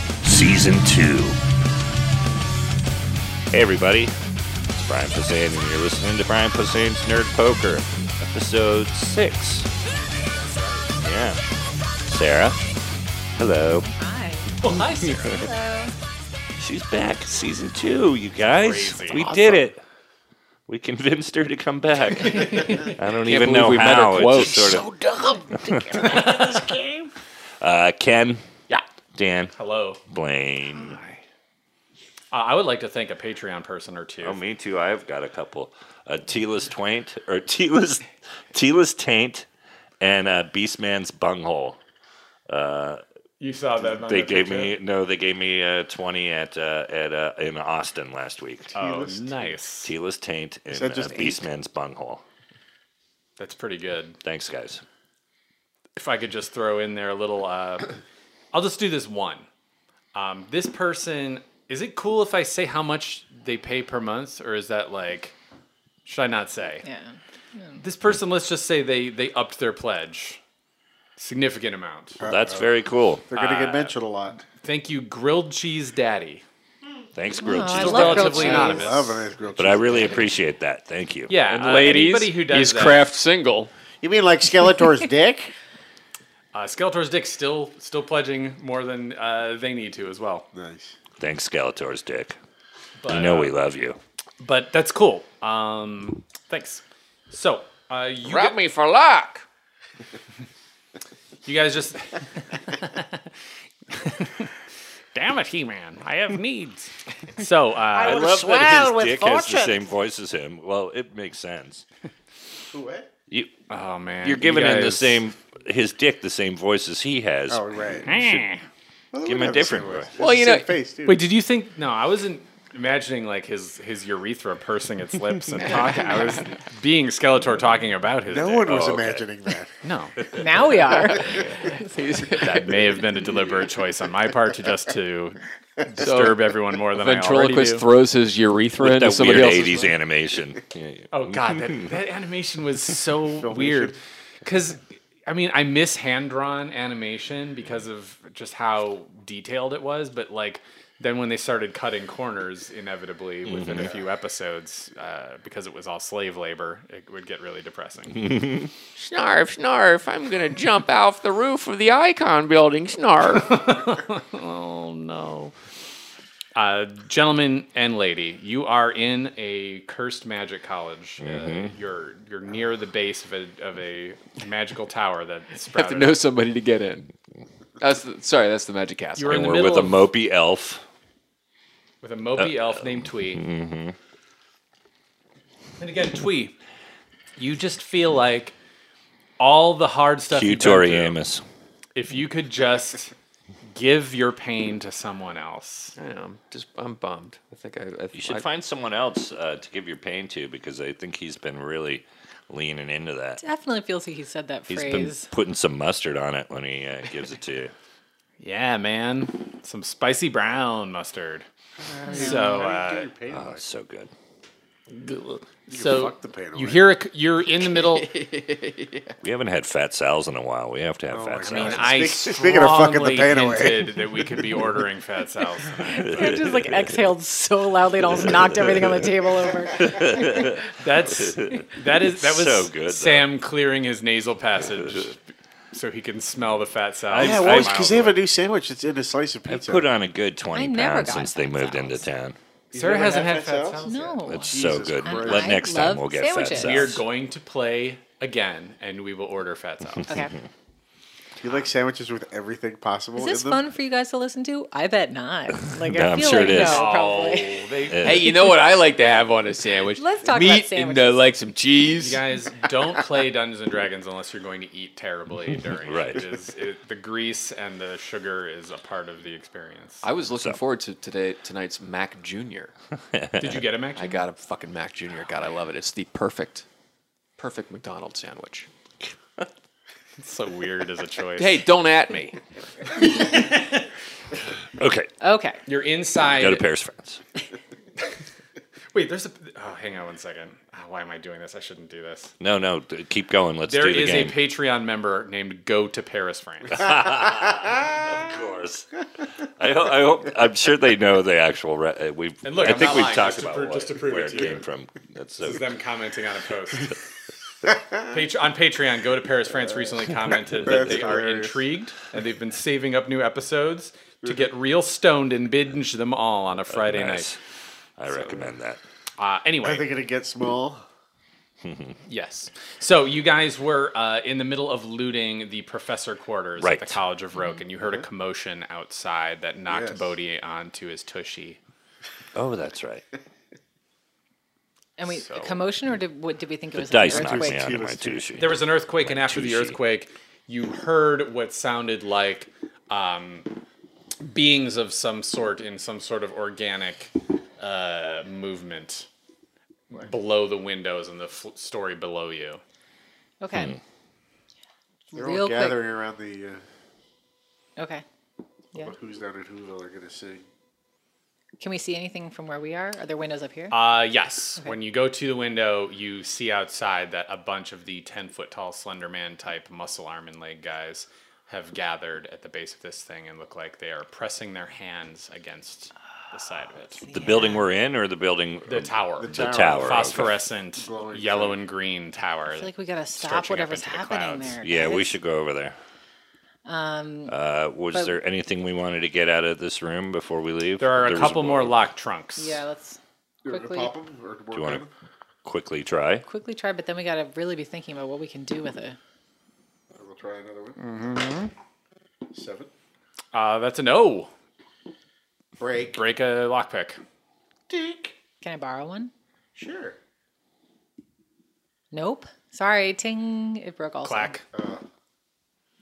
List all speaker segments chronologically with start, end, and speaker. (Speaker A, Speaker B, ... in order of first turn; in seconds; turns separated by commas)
Speaker A: 0.2-1.4, Speaker A: 3.5-4.1, Speaker A: 4.7-9.7, Speaker A: 11.0-11.4, Speaker A: 12.1-12.6, Speaker A: 13.4-13.9, Speaker B: 13.8-14.5, Speaker C: 14.6-15.5, Speaker B: 15.3-15.9, Speaker A: 16.6-19.8, Speaker C: 18.5-19.4, Speaker A: 20.7-27.1, Speaker C: 22.5-22.9, Speaker D: 23.2-26.8, Speaker A: 27.6-28.4, Speaker A: 29.1-29.5, Speaker C: 29.6-30.0, Speaker A: 30.1-31.0, Speaker D: 30.7-31.2, Speaker C: 32.3-34.4, Speaker A: 34.2-39.5, Speaker A: 40.0-41.8, Speaker A: 42.5-43.0, Speaker C: 43.4-44.8, Speaker A: 44.0-48.7, Speaker C: 48.7-49.9, Speaker E: 48.8-49.5, Speaker A: 49.8-52.2, Speaker E: 50.7-51.5, Speaker C: 53.4-54.2, Speaker A: 54.2-54.8, Speaker C: 56.0-58.0, Speaker C: 58.5-59.5, Speaker C: 60.1-65.4, Speaker C: 66.0-66.8, Speaker B: 66.8-67.8, Speaker C: 67.8-70.4, Speaker C: 71.2-72.2, Speaker E: 72.2-72.7, Speaker A: 72.3-73.3, Speaker E: 73.3-74.4, Speaker C: 73.3-74.0, Speaker C: 74.6-76.4, Speaker A: 77.2-78.8, Speaker B: 77.4-78.9, Speaker C: 77.7-79.3, Speaker E: 78.1-80.3, Speaker A: 79.6-81.3, Speaker C: 81.3-83.1, Speaker D: 81.4-83.7, Speaker E: 84.0-85.5, Speaker C: 86.5-90.5, Speaker E: 90.5-91.0, Speaker A: 91.2-92.4, Speaker C: 93.0-93.5, Speaker A: 93.1-94.0, Speaker C: 94.4-98.6, Speaker D: 98.3-99.5, Speaker C: 101.5-103.3, Speaker C: 103.9-104.5, Speaker C: 105.1-108.3, Speaker A: 108.0-111.9, Speaker E: 108.0-109.7, Speaker D: 108.3-108.7, Speaker E: 112.7-113.1, Speaker C: 113.7-115.2, Speaker A: 114.2-118.5, Speaker E: 117.5-118.2, Speaker C: 118.1-118.6, Speaker E: 119.1-121.2, Speaker A: 119.2-120.2, Speaker D: 120.2-120.8, Speaker C: 121.0-128.9, Speaker D: 125.5-126.6, Speaker E: 128.3-129.8, Speaker A: 128.7-129.2, Speaker C: 129.8-130.2, Speaker B: 130.3-131.5, Speaker D: 131.3-133.0, Speaker C: 132.3-137.9, Speaker D: 136.0-140.0, Speaker A: 138.8-141.9, Speaker C: 141.1-158.2, Speaker E: 143.4-144.0, Speaker A: 153.5-153.9, Speaker A: 158.2-158.7, Speaker D: 159.0-163.6, Speaker C: 163.5-165.6, Speaker C: 166.6-176.2, Speaker A: 171.2-171.8, Speaker D: 175.7-177.1, Speaker D: 177.8-179.7, Speaker C: 179.2-180.0, Speaker A: 179.3-180.8, Speaker C: 182.0-183.4, Speaker A: 182.4-184.0, Speaker C: 185.8-186.6, Speaker C: 187.4-188.6, Speaker C: 189.4-191.2, Speaker A: 190.3-191.4, Speaker C: 191.9-193.1, Speaker C: 193.7-195.9, Speaker D: 196.0-198.5, Speaker A: 198.1-203.4, Speaker B: 203.4-205.3, Speaker A: 204.7-207.7, Speaker C: 208.4-211.5, Speaker B: 212.0-212.7, Speaker C: 212.1-213.1, Speaker E: 212.2-213.6, Speaker A: 213.3-214.1, Speaker C: 214.9-218.1, Speaker E: 215.7-216.8, Speaker D: 217.6-219.2, Speaker A: 219.2-222.1, Speaker E: 221.1-224.0, Speaker C: 221.4-226.3, Speaker B: 225.8-230.5, Speaker A: 226.0-227.0, Speaker A: 228.2-229.1, Speaker A: 229.8-233.3, Speaker C: 230.8-235.2, Speaker A: 234.7-235.1, Speaker C: 235.7-238.2, Speaker A: 237.1-237.6, Speaker E: 237.2-239.9, Speaker A: 239.5-242.4, Speaker B: 240.5-242.1, Speaker E: 242.7-245.6, Speaker C: 242.7-244.2, Speaker B: 243.8-246.9, Speaker A: 244.2-247.0, Speaker C: 246.5-250.1, Speaker B: 250.1-250.3, Speaker E: 251.4-253.6, Speaker B: 253.2-257.7, Speaker A: 255.6-257.0, Speaker C: 256.4-258.3, Speaker A: 257.9-258.4, Speaker D: 258.0-262.2, Speaker B: 260.0-261.3, Speaker C: 262.0-270.1, Speaker A: 265.8-266.3, Speaker D: 270.0-272.7, Speaker A: 273.1-273.6, Speaker C: 273.4-274.2, Speaker D: 274.0-276.7, Speaker D: 277.4-278.7, Speaker C: 280.2-281.6, Speaker D: 281.4-282.4, Speaker C: 283.2-283.5, Speaker A: 284.8-285.1, Speaker B: 285.2-285.6, Speaker C: 285.7-286.6, Speaker A: 286.2-287.2, Speaker C: 288.9-292.3, Speaker A: 292.4-294.4, Speaker C: 293.7-296.9, Speaker A: 296.7-298.9, Speaker A: 299.4-305.6, Speaker C: 302.4-304.6, Speaker C: 305.4-307.0, Speaker C: 308.0-317.3, Speaker E: 310.6-311.6, Speaker A: 310.7-311.1, Speaker A: 316.7-317.4, Speaker A: 318.0-318.8, Speaker C: 319.2-319.9, Speaker E: 319.6-320.9, Speaker A: 321.6-322.0, Speaker C: 322.1-331.6, Speaker A: 326.6-327.0, Speaker B: 327.4-327.6, Speaker E: 329.7-330.1, Speaker A: 332.4-333.1, Speaker B: 335.0-337.7, Speaker C: 335.1-335.6, Speaker A: 336.8-339.8, Speaker E: 337.1-338.3, Speaker C: 338.4-343.5, Speaker C: 344.2-349.1, Speaker C: 349.9-352.6, Speaker B: 353.4-353.8, Speaker B: 355.1-355.8, Speaker E: 355.1-356.6, Speaker B: 357.8-358.0, Speaker E: 358.7-360.5, Speaker B: 361.6-363.8, Speaker C: 363.7-377.0, Speaker B: 376.7-377.7, Speaker A: 377.1-380.4, Speaker C: 378.7-384.6, Speaker E: 379.2-381.6, Speaker B: 382.5-385.2, Speaker A: 384.6-385.8, Speaker B: 386.6-387.4, Speaker A: 387.3-391.8, Speaker C: 390.8-392.6, Speaker B: 392.4-393.9, Speaker E: 393.4-394.9, Speaker A: 394.5-394.8, Speaker A: 395.4-396.3, Speaker B: 396.3-399.0, Speaker E: 399.9-400.8, Speaker C: 400.8-401.5, Speaker E: 402.3-402.7, Speaker C: 403.3-404.3, Speaker E: 405.6-406.1, Speaker C: 405.9-407.0, Speaker E: 407.7-408.1, Speaker B: 408.4-409.1, Speaker E: 409.6-410.0, Speaker B: 411.9-414.4, Speaker C: 414.0-414.4, Speaker E: 414.5-414.8